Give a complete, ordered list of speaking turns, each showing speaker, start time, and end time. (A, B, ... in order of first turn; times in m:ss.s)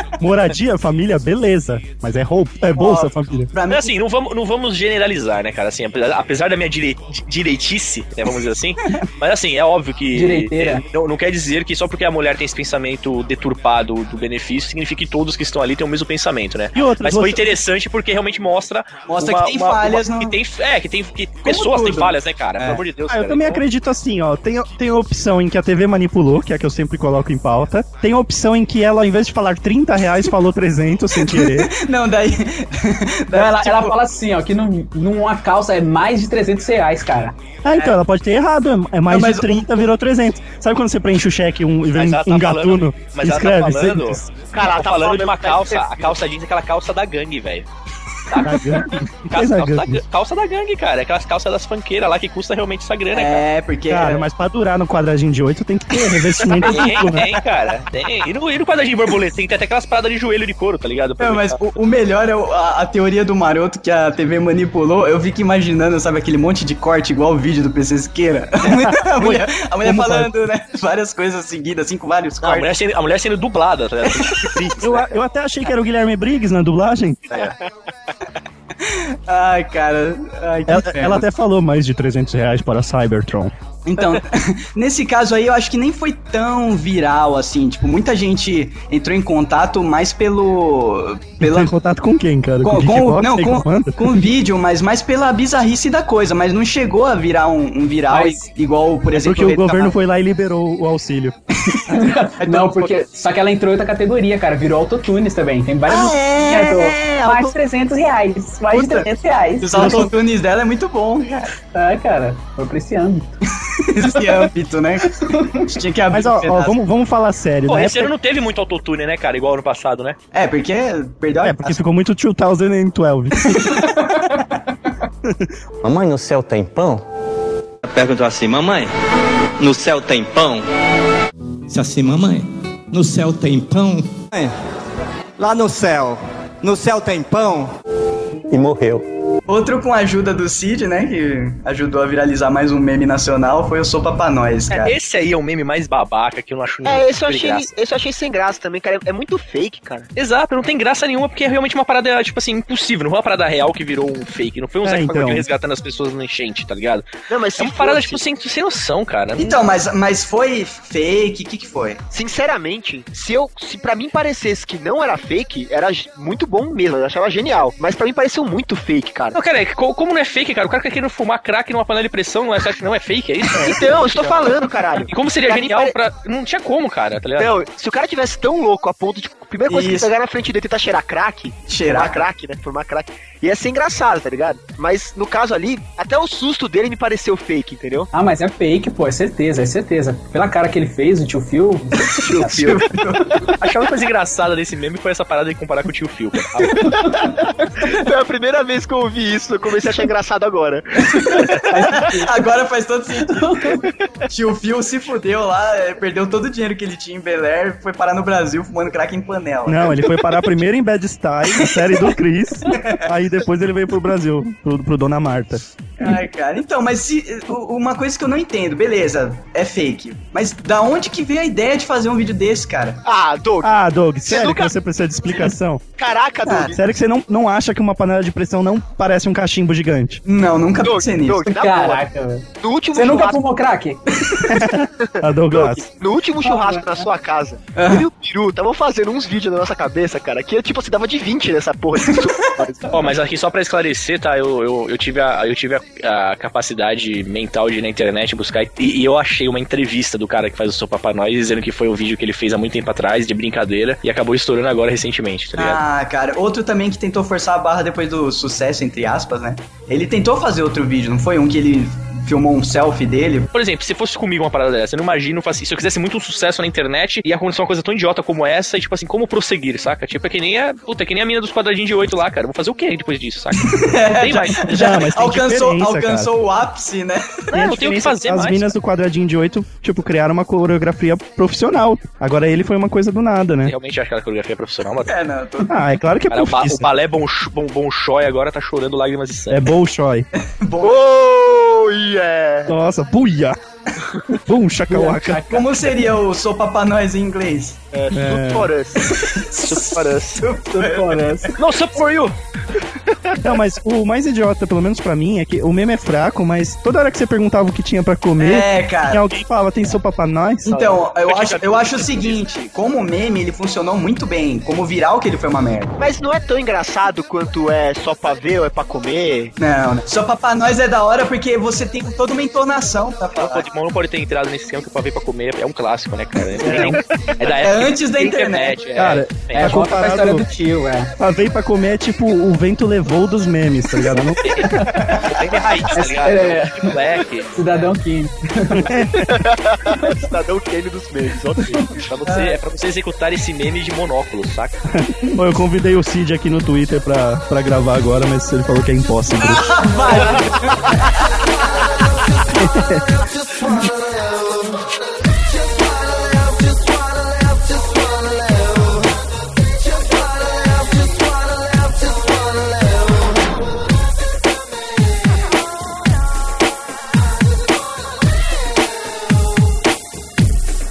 0:00.2-0:03.5 A
0:02.8-0:03.9 B
0:03.7-0:23.6 C
0:10.1-0:10.8 D
0:16.7-0:17.5 A
0:19.1-0:20.4 B
0:21.4-0:22.1 B
0:22.6-0:31.7 A
0:31.1-0:34.0 B
0:33.3-0:37.4 D
0:37.6-0:44.3 A
0:39.1-0:39.9 B
0:41.9-0:47.7 C
0:44.5-0:46.1 E
0:48.3-0:53.4 C
0:48.4-0:50.0 A
0:53.1-0:54.3 B
0:53.9-0:57.4 A
0:56.6-1:01.6 C
1:01.2-1:12.7 B
1:08.6-1:10.3 A
1:12.4-1:15.0 C
1:14.0-1:14.6 B
1:14.6-1:17.3 A
1:18.8-1:21.2 B
1:20.7-1:23.5 A
1:23.8-1:31.7 B
1:31.4-1:34.2 A
1:32.6-1:39.9 B
1:38.1-1:38.4 D
1:39.1-1:41.3 A
1:41.9-1:50.1 D
1:42.4-1:43.0 B
1:46.0-1:47.1 E
1:48.7-1:49.1 B
1:49.6-1:51.5 B
1:49.7-1:50.1 A
1:51.7-1:53.3 D
1:53.6-1:56.8 B
1:56.1-1:58.1 A
1:57.7-2:00.2 C
2:00.3-2:01.8 B
2:01.4-2:03.8 A
2:03.5-2:04.4 B
2:05.8-2:07.0 F
2:07.8-2:08.9 G
2:09.6-2:10.6 G
2:11.7-2:14.2 G
2:15.4-2:17.7 F
2:18.5-2:19.0 F
2:19.5-2:24.9 B
2:24.7-2:27.7 C
2:26.8-2:30.1 E
2:30.2-2:39.6 C
2:34.8-2:35.5 A
2:37.3-2:38.2 E
2:39.4-2:42.0 B
2:42.1-2:49.4 E
2:49.3-2:57.6 C
2:53.5-2:55.9 E
2:57.4-3:08.1 E
2:59.7-3:00.1 B
3:01.7-3:02.3 B
3:08.1-3:12.7 D
3:12.1-3:13.5 B
3:12.4-3:12.8 E
3:13.6-3:17.0 C
3:16.7-3:21.3 E
3:16.8-3:17.2 D
3:21.1-3:23.8 B
3:21.3-3:22.3 D
3:23.2-3:23.8 D
3:24.3-3:30.1 B
3:29.6-3:35.6 A
3:32.7-3:33.1 B
3:36.0-3:43.0 B
3:43.0-3:43.7 E
3:43.6-3:45.8 A
3:44.2-3:44.7 E
3:46.0-3:46.8 E
3:46.5-3:46.7 B
3:46.5-3:50.2 A
3:50.2-3:51.4 B
3:50.8-3:52.0 E
3:51.4-3:54.0 D
3:52.6-3:53.4 E
3:54.4-3:55.8 A
3:55.0-4:03.0 E
3:56.4-3:57.0 D
3:57.8-3:58.1 B
4:02.9-4:15.8 C
4:15.6-4:23.5 B
4:23.5-4:34.9 C
4:33.6-4:37.5 B
4:34.7-4:36.3 A
4:37.5-4:38.7 C
4:37.5-4:43.7 A
4:43.6-4:45.2 C
4:45.0-4:45.8 B
4:45.7-4:46.9 A
4:46.3-4:49.6 C
4:49.5-4:50.3 A
4:50.4-4:51.0 B
4:50.8-4:52.7 E
4:52.7-4:53.6 A
4:54.3-4:55.7 A
4:54.9-4:55.6 D
4:55.4-4:57.8 B
4:57.9-4:59.1 E
4:58.1-4:58.7 A
4:59.0-5:01.6 B
4:59.5-5:00.4 C
5:00.6-5:01.5 D
5:01.6-5:02.3 C
5:03.4-5:10.8 A
5:08.4-5:09.2 B
5:10.7-5:15.9 B
5:10.7-5:12.4 C
5:16.0-5:19.5 E
5:19.6-5:23.6 B
5:23.4-5:29.8 C
5:26.6-5:27.0 A
5:27.5-5:28.8 B
5:29.0-5:30.4 A
5:29.5-5:31.1 D
5:31.2-5:34.8 A
5:34.4-5:37.7 C
5:34.6-5:35.1 D
5:35.0-5:35.4 B
5:35.9-5:37.0 D
5:37.5-5:38.9 D
5:38.7-5:39.4 A
5:39.2-5:41.9 E
5:39.9-5:40.2 D
5:41.9-5:44.8 C
5:42.2-5:42.6 B
5:44.9-5:49.7 A
5:49.4-5:51.3 B
5:50.4-5:51.0 E
5:52.0-6:03.8 H
5:52.5-5:53.0 A